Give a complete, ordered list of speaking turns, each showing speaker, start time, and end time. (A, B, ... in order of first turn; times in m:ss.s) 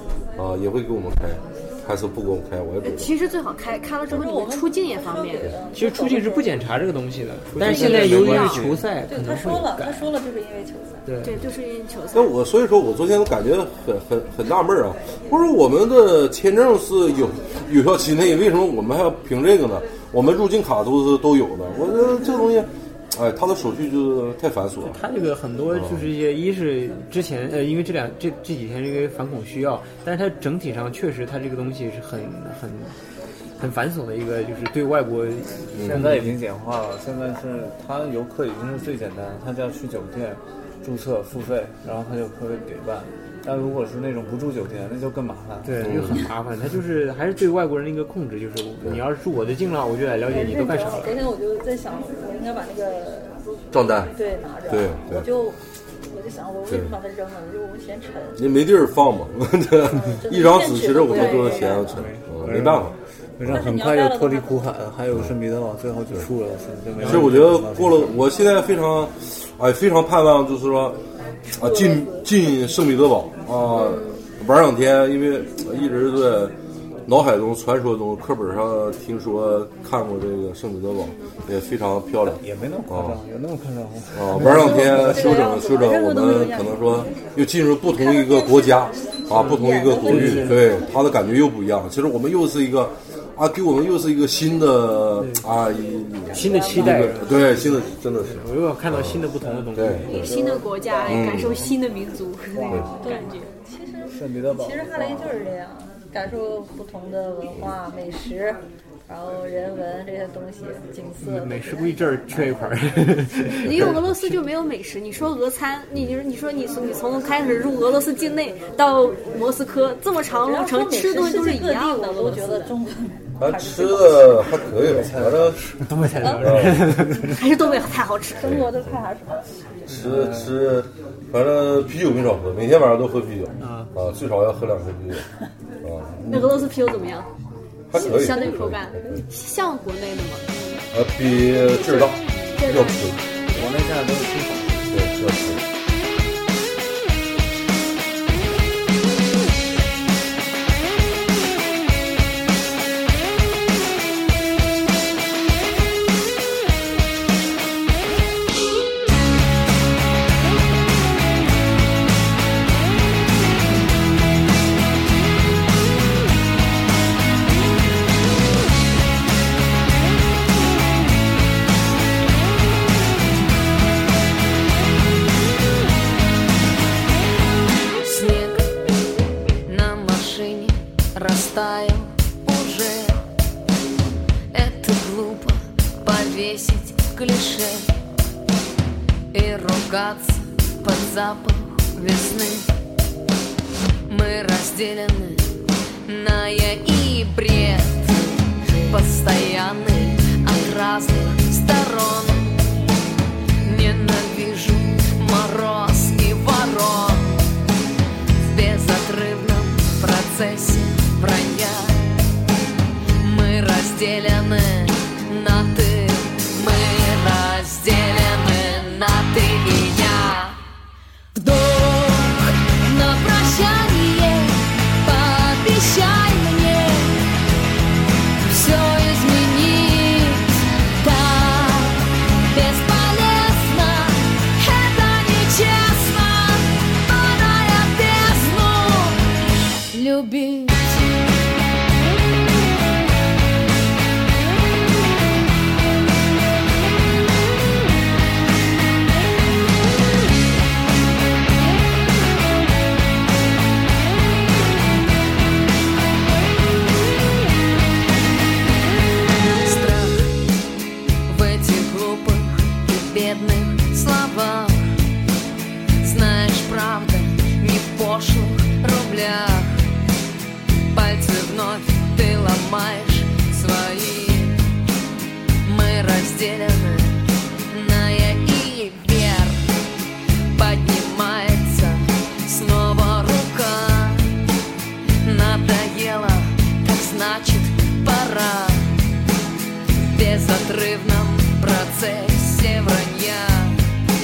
0:00.4-0:03.1 A
0:02.8-0:05.5 B
0:04.1-0:06.6 C
0:05.7-0:10.1 D
0:07.5-0:08.9 E
0:07.6-0:08.6 B
0:09.0-0:11.0 C
0:11.1-0:11.4 D
0:11.2-0:12.4 B
0:12.1-0:25.0 A
0:24.8-0:33.0 D
0:25.7-0:26.1 A
0:33.6-0:36.4 D
0:35.7-0:36.2 A
0:35.9-0:46.0 E
0:45.6-0:51.2 D
0:45.8-0:46.2 A
0:50.3-0:53.4 C
0:53.7-0:54.1 A
0:54.1-0:58.4 C
0:54.7-0:55.3 A
0:56.7-0:56.9 A
0:58.4-1:03.0 A
0:59.9-1:02.0 C
1:01.1-1:01.8 B
1:01.9-1:08.3 E
1:03.5-1:04.7 C
1:07.0-1:07.3 D
1:07.0-1:11.0 A
1:11.5-1:16.5 A
1:13.7-1:14.2 B
1:17.1-1:23.2 A
1:22.2-1:25.4 E
1:24.1-1:40.3 A
1:24.4-1:27.1 C
1:27.8-1:30.9 C
1:29.3-1:30.6 D
1:35.2-1:35.5 D
1:36.3-1:37.6 C
1:36.3-1:37.6 D
1:38.2-1:40.1 D
1:39.4-1:41.2 E
1:40.1-1:43.5 B
1:41.1-1:41.7 A
1:42.6-1:43.0 E
1:42.9-1:53.0 C
1:44.1-1:45.4 E
1:51.2-1:54.4 D
1:53.5-2:02.8 B
2:00.4-2:04.7 C
2:03.4-2:05.6 A
2:04.8-2:07.3 E
2:05.8-2:07.4 D
2:06.2-2:06.5 C
2:06.4-2:06.8 A
2:07.3-2:08.6 B
2:07.5-2:10.1 C
2:08.4-2:09.0 A
2:09.9-2:10.3 D
2:09.9-2:15.2 A
2:10.0-2:10.5 E
2:13.6-2:13.9 D
2:15.8-2:16.7 A
2:16.3-2:17.3 B
2:17.9-2:19.2 A
2:17.9-2:20.8 B
2:18.3-2:18.6 C
2:20.9-2:23.2 A
2:21.5-2:23.2 B
2:23.5-2:25.0 E
2:24.9-2:25.6 A
2:58.0-2:58.7 F
2:59.7-3:03.2 F
3:04.5-3:07.9 F
3:09.3-3:12.7 F
3:14.1-3:15.5 F
3:16.1-3:22.6 F
3:23.6-3:27.5 F
3:28.4-3:32.1 F
3:33.2-3:40.6 F
3:41.3-3:47.2 F
3:48.5-3:59.3 F
3:59.9-4:01.1 F
4:19.5-4:20.3 F
4:21.3-4:24.9 F
4:26.0-4:29.8 F
4:30.9-4:34.6 F
4:35.6-4:39.7 F
4:40.5-4:44.3 F
4:45.2-4:48.9 F
4:49.9-4:53.8 F